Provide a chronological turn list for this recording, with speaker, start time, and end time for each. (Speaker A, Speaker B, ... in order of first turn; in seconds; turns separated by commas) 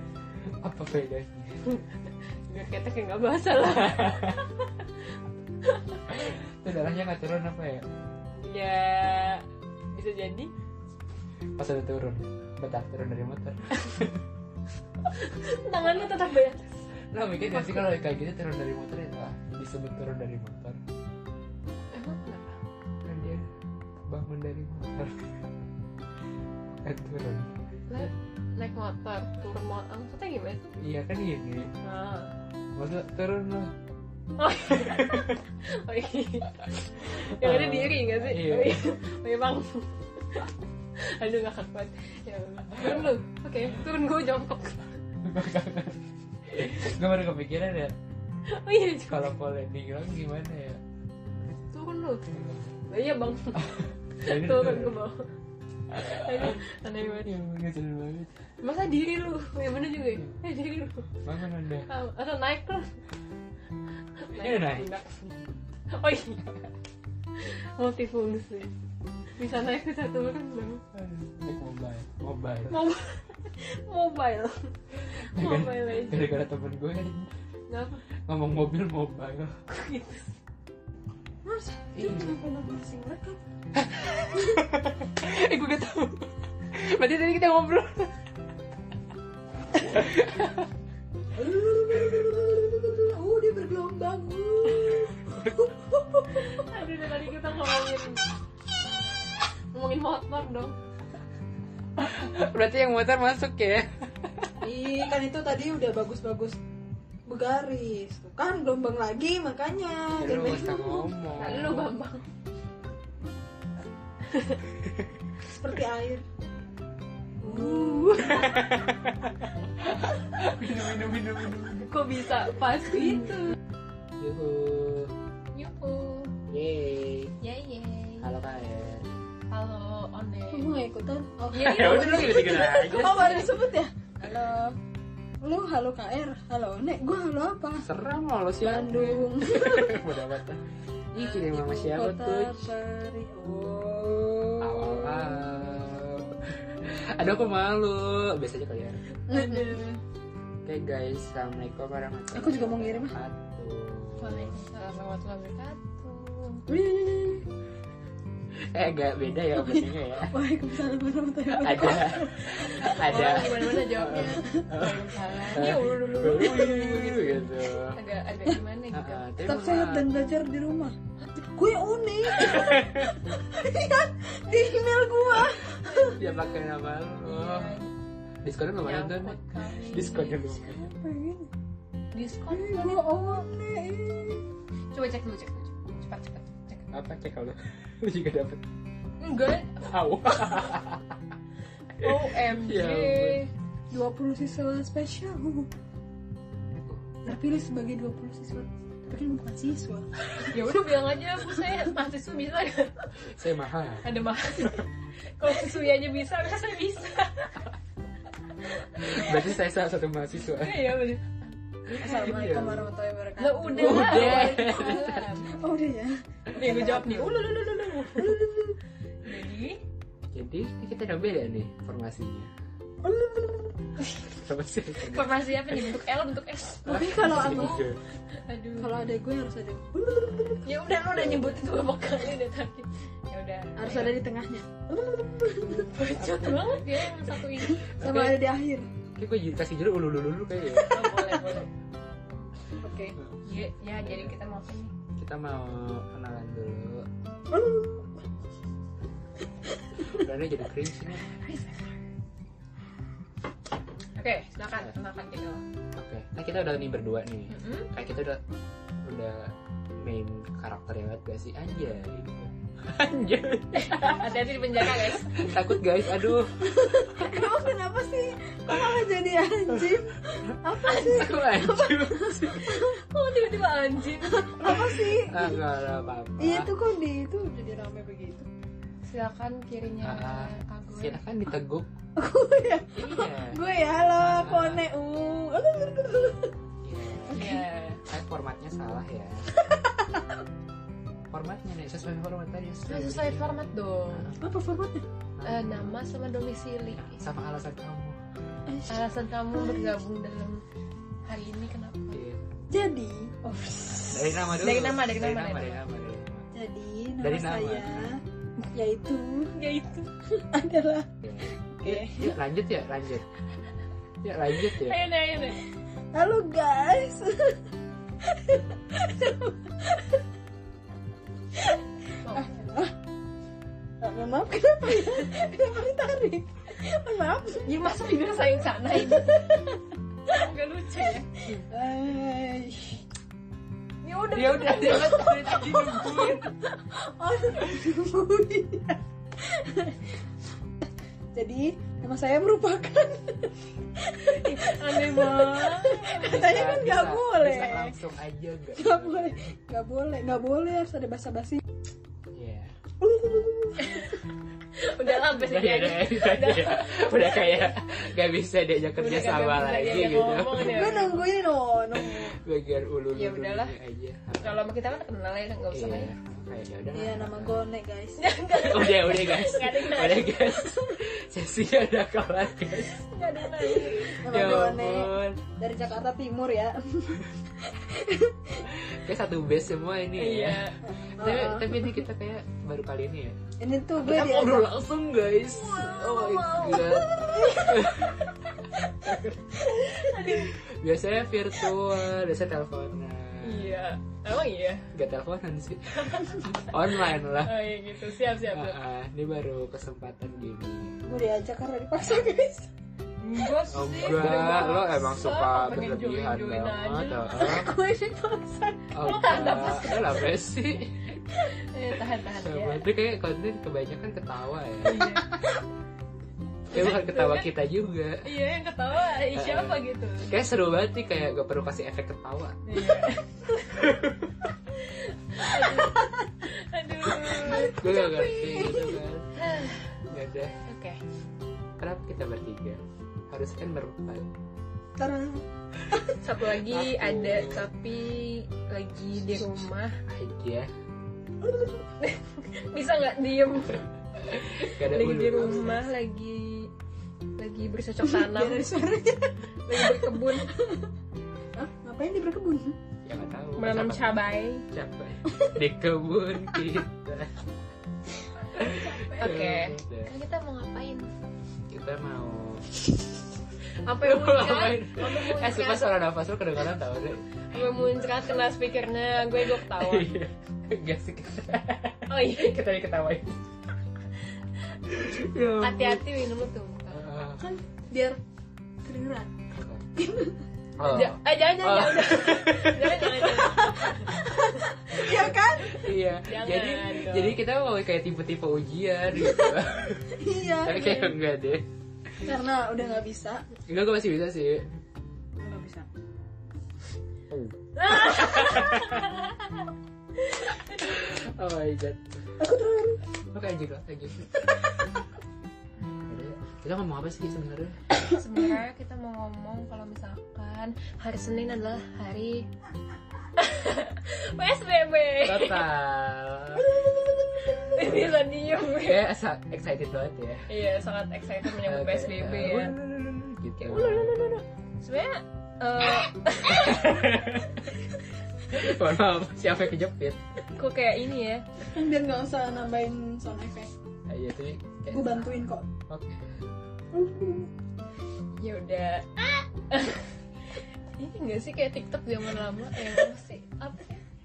Speaker A: 0.5-1.6, Speaker B: 2.5-4.8, Speaker A: 3.8-4.4, Speaker B: 5.6-6.3, Speaker A: 6.1-7.8, Speaker B: 8.4-10.5, Speaker A: 11.6-14.2, Speaker B: 15.1-16.7, Speaker A: 17.1-20.8, Speaker B: 17.5-17.9, Speaker B: 21.9-22.6, Speaker A: 23.0-23.5, Speaker A: 24.1-25.2, Speaker A: 26.8-27.5, Speaker B: 27.9-30.7, Speaker A: 30.8-31.7, Speaker B: 31.8-32.3, Speaker A: 32.8-33.7, Speaker B: 34.4-44.9, Speaker A: 34.7-35.4, Speaker A: 37.1-38.8, Speaker A: 45.2-47.9, Speaker B: 48.5-49.3, Speaker A: 49.1-50.8, Speaker B: 51.7-52.3, Speaker B: 52.9-53.7, Speaker A: 53.6-55.0, Speaker B: 54.2-55.3, Speaker A: 55.9-56.6, Speaker B: 55.9-57.3, Speaker A: 57.2-58.3, Speaker B: 58.6-61.1, Speaker A: 61.2-61.9, Speaker B: 61.9-63.0, Speaker B: 64.2-66.4, Speaker A: 64.3-64.9, Speaker B: 67.4-68.7, Speaker B: 69.4-70.8, Speaker A: 70.9-72.8, Speaker B: 72.7-76.4, Speaker A: 75.3-77.3, Speaker B: 77.7-78.0, Speaker A: 78.3-79.5, Speaker B: 79.7-80.3, Speaker C: 81.5-83.4, Speaker A: 82.0-82.4, Speaker A: 83.8-88.1, Speaker A: 89.9-90.7, Speaker C: 91.4-96.6, Speaker B: 96.3-98.2, Speaker B: 99.7-100.8, Speaker A: 102.0-104.5, Speaker C: 104.6-106.6, Speaker C: 107.3-111.1, Speaker A: 110.2-111.9, Speaker B: 111.3-112.2, Speaker B: 114.3-114.6, Speaker C: 115.4-116.2, Speaker B: 117.4-118.7, Speaker C: 117.4-118.4, Speaker A: 118.2-121.9, Speaker B: 121.8-123.5, Speaker C: 122.9-123.5, Speaker A: 124.2-125.1, Speaker B: 125.5-126.3, Speaker A: 126.5-127.3, Speaker B: 127.4-128.3, Speaker A: 128.2-129.1, Speaker B: 129.5-130.7, Speaker C: 130.5-134.8, Speaker B: 131.5-133.6, Speaker A: 131.7-133.4, Speaker C: 135.4-137.9, Speaker A: 137.8-140.6, Speaker C: 138.6-140.0, Speaker A: 141.1-142.7, Speaker B: 141.2-141.5, Speaker C: 141.6-145.5, Speaker A: 144.6-149.1, Speaker C: 149.3-150.0, Speaker B: 149.3-149.8, Speaker A: 150.7-154.6, Speaker C: 152.3-153.2, Speaker B: 154.2-156.7, Speaker C: 156.7-157.5, Speaker A: 158.5-160.3, Speaker C: 159.6-164.7, Speaker A: 161.5-168.0, Speaker B: 162.6-169.3, Speaker C: 166.2-167.2, Speaker A: 168.9-170.1, Speaker C: 169.4-176.2, Speaker A: 172.5-173.2, Speaker B: 175.8-176.5, Speaker A: 176.2-177.8, Speaker B: 177.2-177.9, Speaker A: 178.4-180.9, Speaker B: 178.8-180.4, Speaker C: 180.6-181.5, Speaker B: 182.1-183.1, Speaker C: 182.5-184.4, Speaker B: 184.9-186.9, Speaker A: 186.9-188.6, Speaker B: 189.2-189.9, Speaker A: 189.9-191.2, Speaker A: 192.0-193.4, Speaker B: 192.0-193.5, Speaker C: 193.9-195.7, Speaker C: 197.2-200.2, Speaker B: 200.4-202.9, Speaker A: 203.3-204.1, Speaker B: 204.0-207.7, Speaker B: 208.6-209.5, Speaker A: 208.9-211.1, Speaker B: 210.5-211.3, Speaker A: 211.9-212.9, Speaker C: 212.0-218.8, Speaker B: 213.4-215.5, Speaker A: 213.8-215.2, Speaker B: 216.5-218.5, Speaker B: 219.3-219.8, Speaker A: 220.3-222.5, Speaker C: 223.0-223.9, Speaker B: 224.0-224.3, Speaker A: 224.3-225.8, Speaker B: 225.0-227.8, Speaker C: 226.8-227.9, Speaker A: 226.9-228.0, Speaker B: 228.3-228.9, Speaker C: 228.8-230.7, Speaker B: 230.6-234.2, Speaker A: 231.1-231.6, Speaker C: 233.8-235.9, Speaker B: 235.9-238.3, Speaker A: 236.2-236.8, Speaker C: 237.6-238.9, Speaker A: 239.2-241.0, Speaker B: 240.8-241.7, Speaker C: 242.8-243.2, Speaker B: 243.4-244.9, Speaker A: 244.0-244.3, Speaker A: 245.2-247.1, Speaker C: 247.5-248.2, Speaker A: 250.1-251.3, Speaker B: 254.2-255.6, Speaker A: 255.9-258.4, Speaker B: 257.5-257.9, Speaker A: 259.1-267.4, Speaker B: 263.7-265.5, Speaker C: 266.6-273.0, Speaker A: 270.5-272.8, Speaker B: 270.8-271.4, Speaker B: 272.7-274.9, Speaker C: 274.3-275.6, Speaker A: 275.1-276.7, Speaker C: 276.4-278.5, Speaker B: 279.1-281.2, Speaker A: 280.0-281.9, Speaker C: 282.2-286.5, Speaker A: 282.9-283.6, Speaker A: 284.2-284.8, Speaker A: 286.8-287.4, Speaker C: 287.3-287.6, Speaker B: 287.3-288.0, Speaker A: 288.1-289.5, Speaker C: 289.7-290.3, Speaker A: 291.3-294.4, Speaker B: 292.9-294.3, Speaker C: 294.4-295.1, Speaker A: 295.4-296.0, Speaker B: 295.4-297.2, Speaker A: 297.0-298.2, Speaker C: 298.7-300.0, Speaker B: 298.9-300.6, Speaker B: 301.3-302.2, Speaker A: 302.1-302.5, Speaker C: 302.7-304.5, Speaker A: 304.1-306.5, Speaker B: 304.6-305.8, Speaker C: 306.5-308.2, Speaker A: 307.2-308.1, Speaker C: 308.7-309.6, Speaker B: 309.5-310.4, Speaker C: 310.5-311.1, Speaker A: 311.2-313.3, Speaker C: 311.7-312.4, Speaker A: 314.2-315.0, Speaker B: 314.7-315.6, Speaker C: 316.1-317.7, Speaker C: 318.2-320.2, Speaker C: 321.6-322.9, Speaker B: 322.2-322.6, Speaker C: 324.0-327.7, Speaker B: 327.6-329.6, Speaker C: 329.1-329.7, Speaker B: 330.2-331.3, Speaker C: 331.4-333.0, Speaker B: 334.0-336.5, Speaker A: 334.3-336.5, Speaker C: 334.9-335.7, Speaker C: 336.7-340.2, Speaker C: 341.3-348.0, Speaker B: 344.2-346.4, Speaker A: 346.2-349.5, Speaker C: 348.8-351.6, Speaker A: 352.3-352.8, Speaker C: 353.0-354.2, Speaker B: 353.8-354.2, Speaker B: 354.8-357.7, Speaker A: 355.2-361.1, Speaker B: 359.0-361.2, Speaker C: 360.6-362.4, Speaker A: 361.9-364.6, Speaker B: 363.1-363.7, Speaker B: 364.4-366.1, Speaker A: 365.7-367.6, Speaker C: 366.9-368.2, Speaker B: 368.2-370.6, Speaker A: 368.5-373.1, Speaker B: 373.1-374.2, Speaker C: 373.9-378.7, Speaker A: 373.9-375.4, Speaker A: 378.7-383.4, Speaker B: 380.2-380.8, Speaker C: 380.8-382.0, Speaker C: 383.6-384.7, Speaker A: 384.0-388.3, Speaker C: 385.4-388.3, Speaker A: 389.1-389.6, Speaker C: 389.6-390.5, Speaker B: 389.9-390.5, Speaker A: 390.2-393.8, Speaker B: 393.4-394.9, Speaker A: 394.9-397.6, Speaker B: 397.4-398.8, Speaker A: 398.5-401.0, Speaker C: 401.1-402.7, Speaker B: 403.2-407.3, Speaker A: 403.7-407.7, Speaker C: 404.2-404.5, Speaker C: 407.3-408.9, Speaker A: 408.9-411.2, Speaker B: 409.0-410.3, Speaker B: 411.3-412.9, Speaker A: 412.4-415.2, Speaker B: 414.8-415.4, Speaker C: 415.2-415.6, Speaker A: 416.7-418.2, Speaker B: 416.7-417.5, Speaker B: 418.2-420.4, Speaker A: 419.3-422.6, Speaker B: 422.6-423.9, Speaker A: 423.7-424.3, Speaker B: 424.7-428.8, Speaker C: 425.6-426.1, Speaker C: 427.3-429.0, Speaker A: 427.6-429.3, Speaker B: 429.4-430.0, Speaker A: 430.1-430.6, Speaker B: 430.6-431.0, Speaker A: 431.8-434.3, Speaker C: 435.0-436.1, Speaker B: 436.2-440.0, Speaker A: 436.5-437.7, Speaker C: 439.3-439.6, Speaker A: 440.1-440.7, Speaker C: 441.4-441.9, Speaker B: 442.0-443.9, Speaker A: 444.3-445.7, Speaker B: 444.4-446.7, Speaker C: 445.3-445.8, Speaker B: 447.4-448.6, Speaker C: 448.0-450.9, Speaker B: 449.7-450.5, Speaker C: 451.6-452.8, Speaker A: 453.1-454.2, Speaker B: 453.6-454.7, Speaker A: 454.7-457.3, Speaker C: 455.3-455.5, Speaker A: 458.5-460.1, Speaker C: 458.6-459.4, Speaker B: 459.2-461.1, Speaker A: 461.7-462.8, Speaker B: 463.8-465.9, Speaker A: 463.9-468.1, Speaker B: 467.5-470.1, Speaker A: 469.3-473.4, Speaker B: 472.1-472.6, Speaker A: 474.9-476.1, Speaker B: 475.4-477.1, Speaker A: 476.9-477.4, Speaker C: 477.4-478.2, Speaker C: 478.9-479.3, Speaker A: 479.5-479.8, Speaker C: 480.0-480.4, Speaker A: 480.8-483.5, Speaker B: 480.9-485.1, Speaker C: 483.5-485.9, Speaker A: 485.0-491.7, Speaker B: 486.2-487.4, Speaker C: 489.2-489.6, Speaker C: 490.1-491.1, Speaker C: 492.2-493.4, Speaker A: 493.7-494.7, Speaker C: 495.4-495.9, Speaker A: 497.3-499.1, Speaker B: 497.8-499.7, Speaker B: 500.2-500.8, Speaker A: 500.8-502.3, Speaker C: 502.4-503.0, Speaker A: 503.3-504.5, Speaker A: 506.1-507.8, Speaker B: 508.0-512.5, Speaker B: 513.4-515.7, Speaker A: 515.2-516.7, Speaker C: 516.7-517.7, Speaker B: 517.7-519.0, Speaker A: 518.8-520.5, Speaker B: 520.5-522.8, Speaker A: 521.6-524.2, Speaker B: 523.6-527.1, Speaker A: 526.5-527.7, Speaker A: 528.5-530.2, Speaker B: 530.5-531.5, Speaker C: 531.7-533.7, Speaker A: 534.1-535.3, Speaker C: 534.9-535.7, Speaker A: 535.9-536.4, Speaker C: 536.9-537.5, Speaker B: 538.4-540.1, Speaker B: 541.0-544.0